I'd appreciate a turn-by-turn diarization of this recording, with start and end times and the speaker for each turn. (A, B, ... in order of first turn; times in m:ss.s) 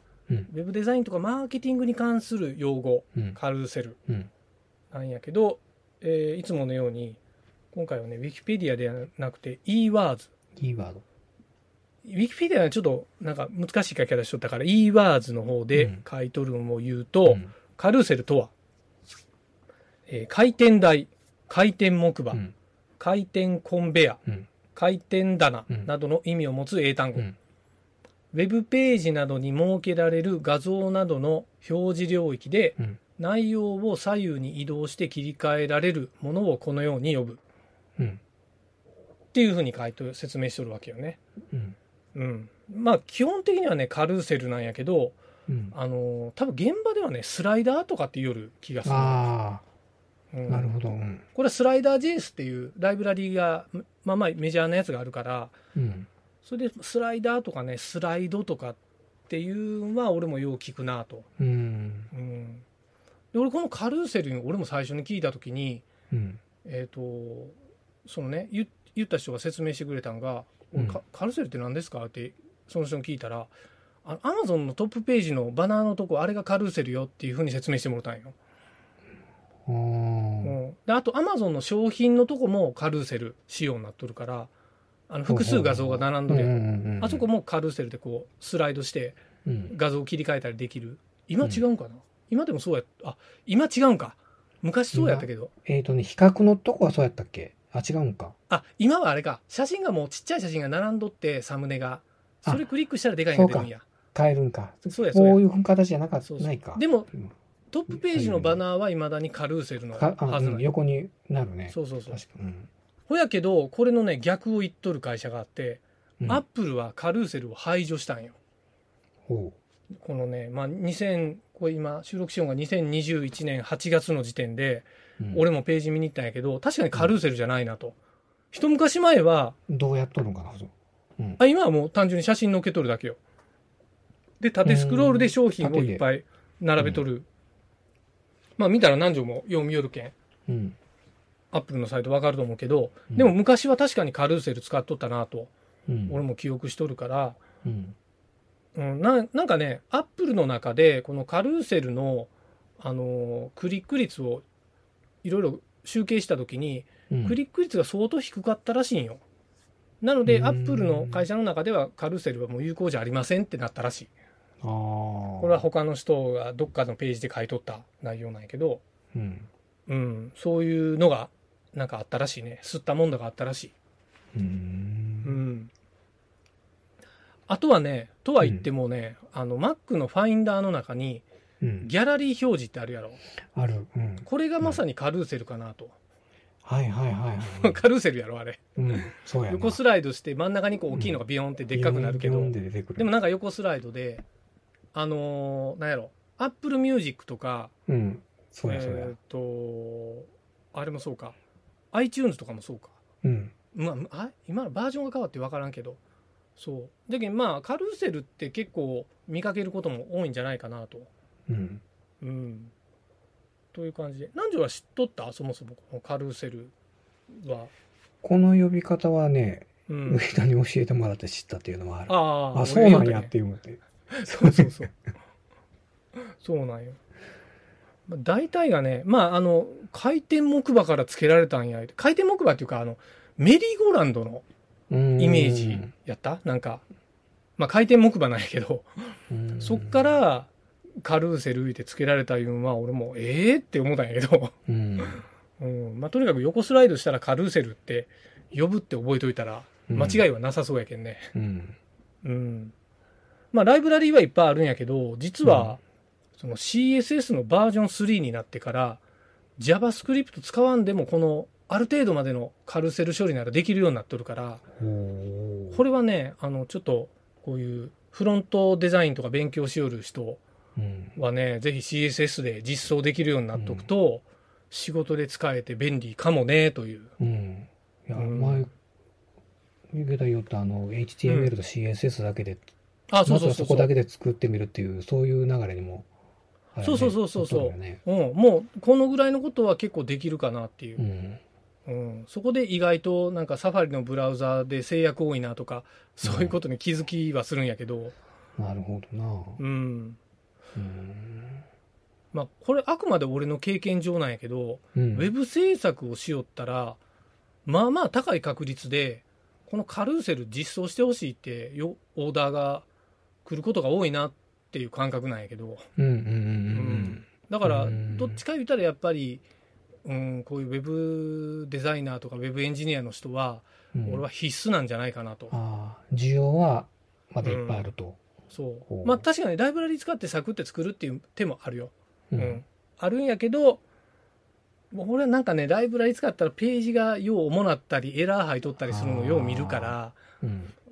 0:00.5-0:04.0 A
0:04.9-0:07.2 A
0:07.7-0:10.3 A
0:10.6-0:11.0 B
0:12.0-0:18.5 A
0:15.7-0:16.0 B
0:17.3-0:17.5 B
0:20.1-0:22.4 A
0:23.0-0:24.2 A
0:24.7-0:27.3 A
0:28.3-0:37.4 A
0:39.3-0:41.2 A
0:42.2-0:45.2 A
0:45.5-0:45.8 B
0:45.7-0:49.3 A
0:48.8-0:49.6 B
0:50.3-0:55.5 A
0:50.5-0:51.2 B
0:55.8-0:56.1 B
0:56.4-1:01.3 A
1:01.4-1:02.1 B
1:02.1-1:02.6 A
1:03.3-1:05.8 A
1:06.1-1:06.4 B
1:06.6-1:18.4 A
1:19.7-1:20.6 B
1:20.4-1:24.5 A
1:25.1-1:35.5 A
1:25.3-1:27.3 B
1:29.4-1:29.8 B
1:34.9-1:38.4 B
1:38.5-1:43.8 A
1:43.2-1:47.3 B
1:44.9-1:45.4 A
1:46.2-1:47.1 A
1:47.7-1:50.7 A
1:47.9-1:48.6 B
1:49.9-1:52.7 B
1:51.7-1:52.2 A
1:53.1-1:58.4 A
1:59.3-1:59.6 B
2:00.0-2:08.0 A
2:05.2-2:05.4 B
2:08.5-2:09.6 A
2:09.7-2:11.4 B
2:11.4-2:13.2 A
2:14.4-2:17.3 A
2:14.6-2:16.1 B
2:16.8-2:17.0 B
2:18.6-2:20.2 A
2:20.5-2:20.8 B
2:21.5-2:25.5 A
2:25.9-2:26.2 B
2:26.1-2:27.4 A
2:27.6-2:28.0 B
2:28.8-2:34.4 A
2:35.2-2:39.2 A
2:37.1-2:37.4 B
2:40.0-2:44.1 A
2:40.3-2:41.3 B
2:44.6-2:45.6 B
2:45.4-2:48.8 A
2:49.1-2:49.5 B
2:49.9-2:53.7 A
2:54.3-2:55.4 B
2:55.2-2:55.7 A
2:57.5-3:01.2 A
2:58.4-2:58.7 B
3:01.6-3:01.9 B
3:01.8-3:03.2 A
3:03.5-3:04.8 B
3:04.2-3:06.0 A
3:06.6-3:07.8 B
3:07.4-3:08.8 A
3:08.8-3:09.8 B
3:09.5-3:14.2 A
3:10.9-3:13.1 B
3:14.9-3:17.7 A
3:17.9-3:19.1 B
3:18.6-3:21.4 A
3:21.9-3:23.0 A
3:23.2-3:23.5 B
3:23.7-3:26.0 A
3:26.6-3:31.1 A
3:31.5-3:31.8 B
3:32.2-3:32.7 A
3:33.7-3:36.7 A
3:37.3-3:37.7 A
3:38.2-3:44.9 B
3:39.9-3:40.3 A
3:42.1-3:43.4 A
3:44.1-3:44.9 A
3:46.4-3:47.0 A
3:48.1-3:54.4 A
3:54.9-3:55.9 B
3:55.2-3:56.8 A
3:57.6-3:58.9 A
3:59.3-4:00.2 B
3:59.6-4:00.5 A
4:01.0-4:04.5 A
4:04.7-4:05.2 B
4:05.0-4:11.3 A
4:09.9-4:10.3 B
4:11.4-4:11.8 B
4:12.2-4:12.7 A
4:13.5-4:15.8 A
4:15.4-4:15.8 B
4:16.4-4:19.0 A
4:19.6-4:24.6 A
4:24.8-4:25.8 B
4:25.7-4:30.4 A
4:30.8-4:31.2 B
4:31.2-4:37.1 A
4:33.5-4:33.9 B
4:37.2-4:38.7 B
4:38.2-4:38.7 A
4:39.9-4:42.7 B
4:41.3-4:41.5 A
4:43.1-4:43.9 A
4:43.2-4:46.1 B
4:46.7-4:48.0 B
4:46.8-4:51.0 A
4:51.0-4:51.4 B
4:51.9-4:58.2 A
4:56.2-4:56.6 B
4:58.6-4:59.6 B
4:59.6-5:00.2 A
5:00.8-5:01.6 B
5:02.3-5:07.0 A
5:05.0-5:05.3 B
5:07.6-5:12.9 A
5:13.4-5:15.9 A
5:16.0-5:18.4 B
5:16.7-5:19.4 A
5:20.0-5:25.5 A
5:23.9-5:24.3 B
5:25.5-5:28.2 B
5:27.4-5:27.9 A
5:28.5-5:33.8 A
5:28.9-5:29.2 B
5:32.3-5:32.6 B
5:34.9-5:40.2 A
5:38.8-5:40.7 B